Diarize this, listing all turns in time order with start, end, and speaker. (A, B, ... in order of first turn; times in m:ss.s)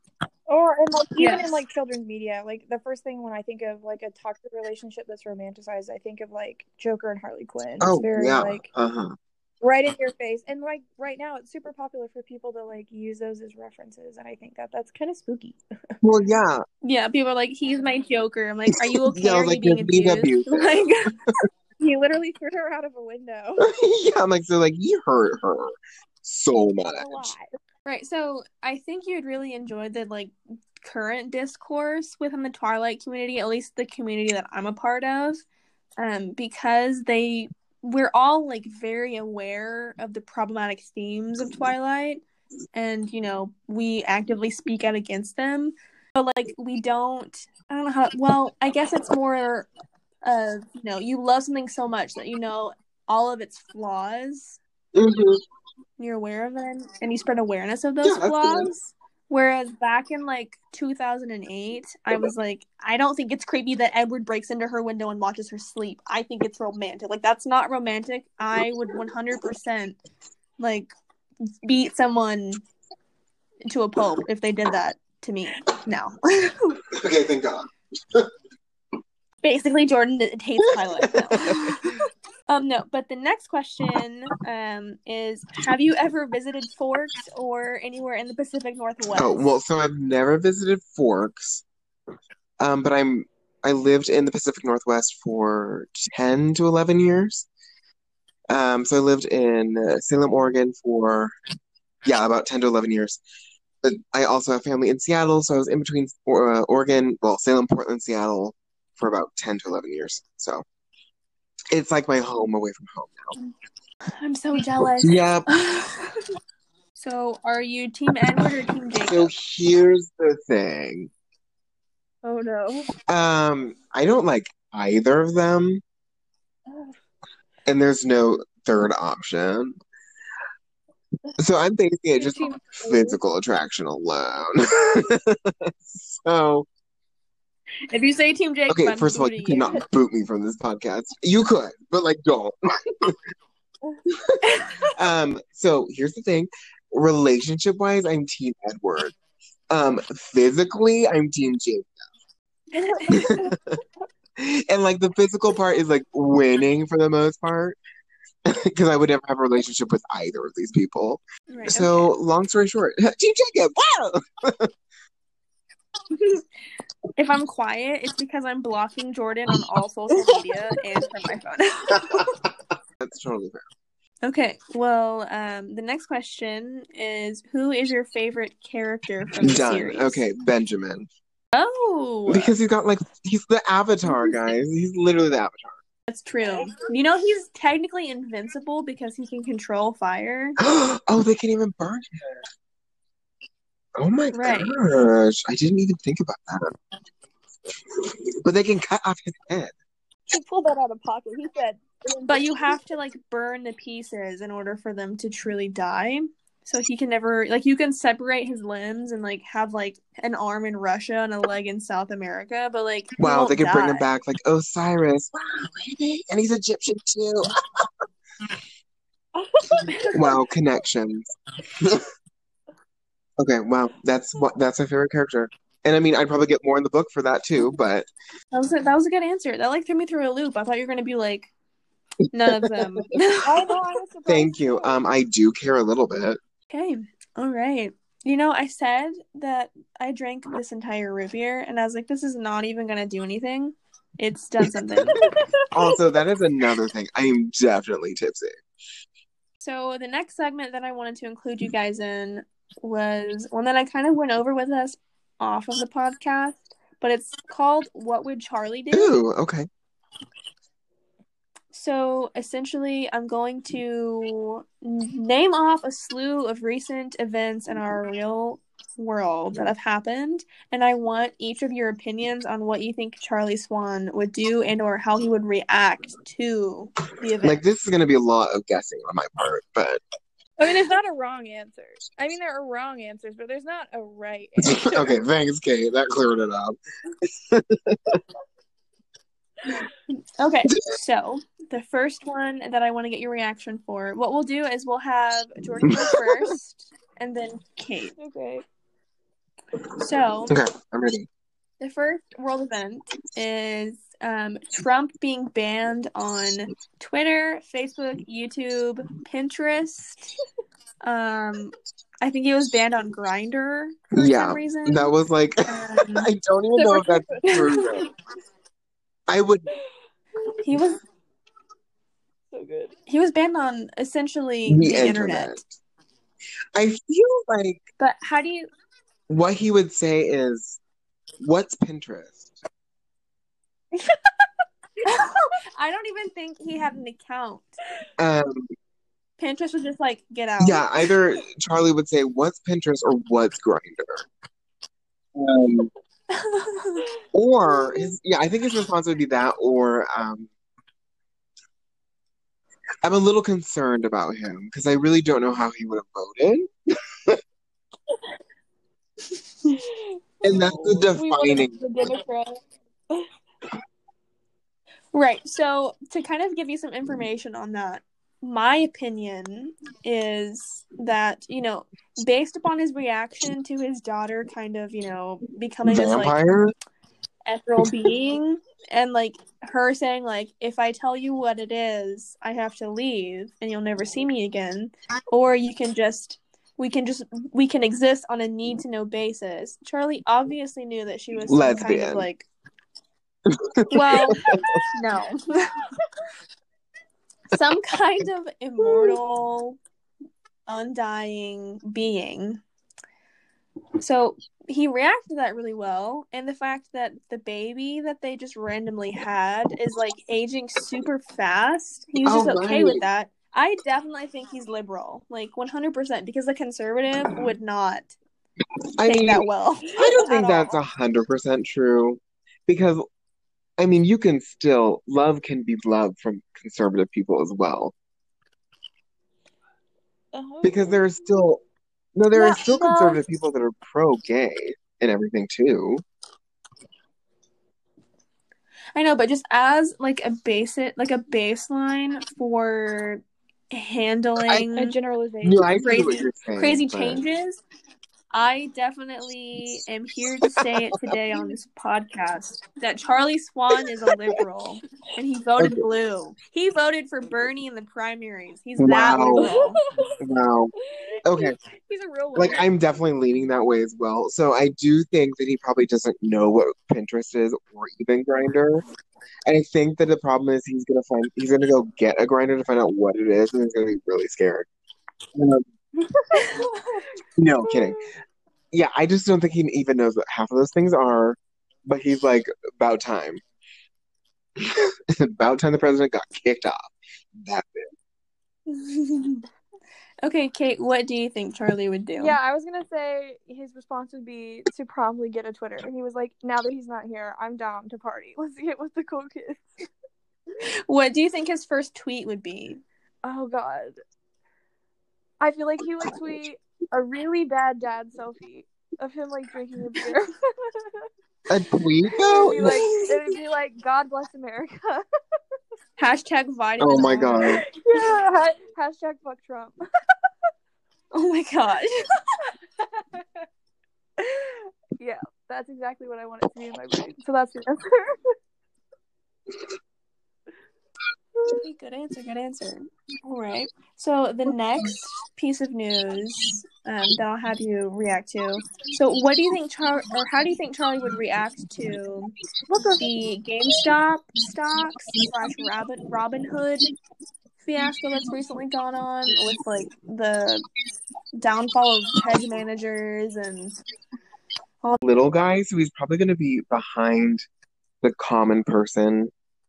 0:00.5-0:08.7 A
0:01.2-0:01.6 B
0:07.8-0:09.2 C
0:09.6-0:15.6 A
0:16.0-0:16.6 C
0:16.8-0:21.1 B
0:19.1-0:20.9 C
0:21.8-0:23.6 A
0:23.6-0:27.3 C
0:27.0-0:27.5 A
0:27.9-0:35.4 B
0:36.0-0:42.2 B
0:42.7-0:49.7 B
0:50.2-0:54.6 B
0:55.0-0:55.4 C
0:56.0-1:10.0 B
0:58.0-0:58.7 C
1:10.6-1:10.9 B
1:11.6-1:12.6 B
1:13.7-1:16.8 B
1:16.9-1:18.3 C
1:19.4-1:22.0 B
1:21.0-1:21.9 C
1:22.5-1:29.5 B
1:29.1-1:31.6 C
1:32.6-1:37.5 C
1:38.5-1:41.3 C
1:42.0-1:43.2 C
1:43.8-1:50.6 C
1:51.7-1:53.3 C
1:54.2-1:56.1 B
1:55.0-1:55.5 C
1:57.0-1:59.3 B
1:59.1-2:01.1 C
2:02.2-2:02.9 A
2:03.1-2:05.8 C
2:07.7-2:09.8 C
2:11.4-2:16.7 C
2:12.2-2:13.2 A
2:17.9-2:19.8 B
2:18.7-2:23.2 C
2:24.9-2:29.2 C
2:29.7-2:32.0 C
2:33.1-2:33.8 C
2:34.4-2:37.8 C
2:38.5-2:44.7 C
2:41.5-2:42.1 B
2:46.2-2:46.4 B
2:47.2-2:52.2 B
2:52.0-2:53.6 C
2:54.2-3:00.2 B
2:59.4-3:01.1 C
3:01.5-3:02.5 B
3:02.3-3:05.8 C
3:06.1-3:10.6 B
3:10.6-3:12.4 C
3:14.0-3:16.8 C
3:14.3-3:14.8 B
3:18.0-3:19.7 C
3:20.3-3:22.7 A
3:22.3-3:34.0 B
3:33.2-3:37.9 C
3:39.4-3:40.3 A
3:40.1-3:42.1 C
3:43.4-3:48.1 C
3:48.5-3:51.5 B
3:52.3-3:53.6 B
3:52.5-3:53.0 C
3:53.4-3:55.0 A
3:54.3-3:56.4 C
3:56.7-4:05.2 B
4:05.2-4:05.7 A
4:05.7-4:08.6 C
4:09.6-4:19.2 B
4:18.9-4:19.7 C
4:21.7-4:37.6 B
4:37.4-4:40.0 C
4:40.6-4:45.1 A
4:44.6-4:48.2 C
4:50.4-4:58.2 B
4:55.9-4:56.3 C
4:58.2-4:58.6 A
5:00.0-5:00.5 B
5:00.5-5:01.3 C
5:01.8-5:10.3 B
5:11.0-5:15.1 B
5:14.1-5:18.0 C
5:15.7-5:16.3 B
5:16.9-5:17.9 B
5:17.0-5:18.0 A
5:19.3-5:19.7 C
5:20.6-5:21.0 B
5:22.5-5:22.9 A
5:23.1-5:25.6 B
5:24.7-5:25.7 C
5:26.8-5:27.8 C
5:28.0-5:28.7 B
5:29.3-5:30.8 C
5:31.4-5:32.5 C
5:34.0-5:34.3 A
5:35.0-5:37.8 B
5:38.2-5:38.7 C
5:39.4-5:40.9 B
5:40.6-5:44.2 C
5:45.4-5:45.9 C
5:46.4-5:47.0 B
5:47.3-5:50.5 C
5:47.7-5:48.1 A
5:53.0-5:56.7 C
5:59.8-6:02.6 A
6:00.4-6:01.8 C
6:05.1-6:16.4 B
6:15.9-6:16.7 C
6:17.5-6:32.5 B
6:31.5-6:32.3 C
6:33.5-6:34.8 C
6:33.9-6:35.8 B
6:37.5-6:39.8 B
6:40.7-6:42.6 B
6:44.0-6:58.1 B
6:52.2-6:53.0 C
6:59.0-7:03.0 C
6:59.0-7:00.5 B
7:00.0-7:00.8 A
7:03.8-7:07.9 C
7:10.3-7:11.2 A
7:10.6-7:11.6 C
7:12.2-7:16.0 C
7:12.3-7:13.2 A
7:19.0-7:25.0 B
7:24.8-7:26.2 A
7:25.4-7:27.2 C
7:25.8-7:27.6 B
7:28.3-7:39.8 B
7:38.8-7:39.6 C
7:39.4-7:40.1 A
7:40.2-7:40.7 C
7:40.9-7:42.6 A
7:41.2-7:41.6 C
7:42.4-7:48.8 C
7:49.5-7:54.7 C
7:55.3-7:55.6 C
7:56.1-7:57.1 A
7:57.4-7:58.0 C
7:57.6-7:58.1 A
7:58.7-8:03.4 C
8:04.6-8:07.9 C
8:08.7-8:09.4 B
8:10.2-8:12.4 B
8:12.2-8:19.7 A
8:20.9-8:22.8 B
8:23.2-8:24.0 A
8:25.4-8:31.0 A
8:31.5-8:32.8 C
8:32.2-8:35.1 A
8:32.6-8:33.2 B
8:36.0-8:37.6 B
8:36.8-8:37.6 C
8:37.5-8:39.8 A
8:41.1-8:42.0 B
8:44.2-8:48.3 A
8:51.6-9:02.3 B
9:02.7-9:03.0 A
9:03.0-9:06.9 B
9:07.6-9:10.6 B
9:11.4-9:13.8 B
9:15.0-9:17.4 C
9:18.0-9:19.3 C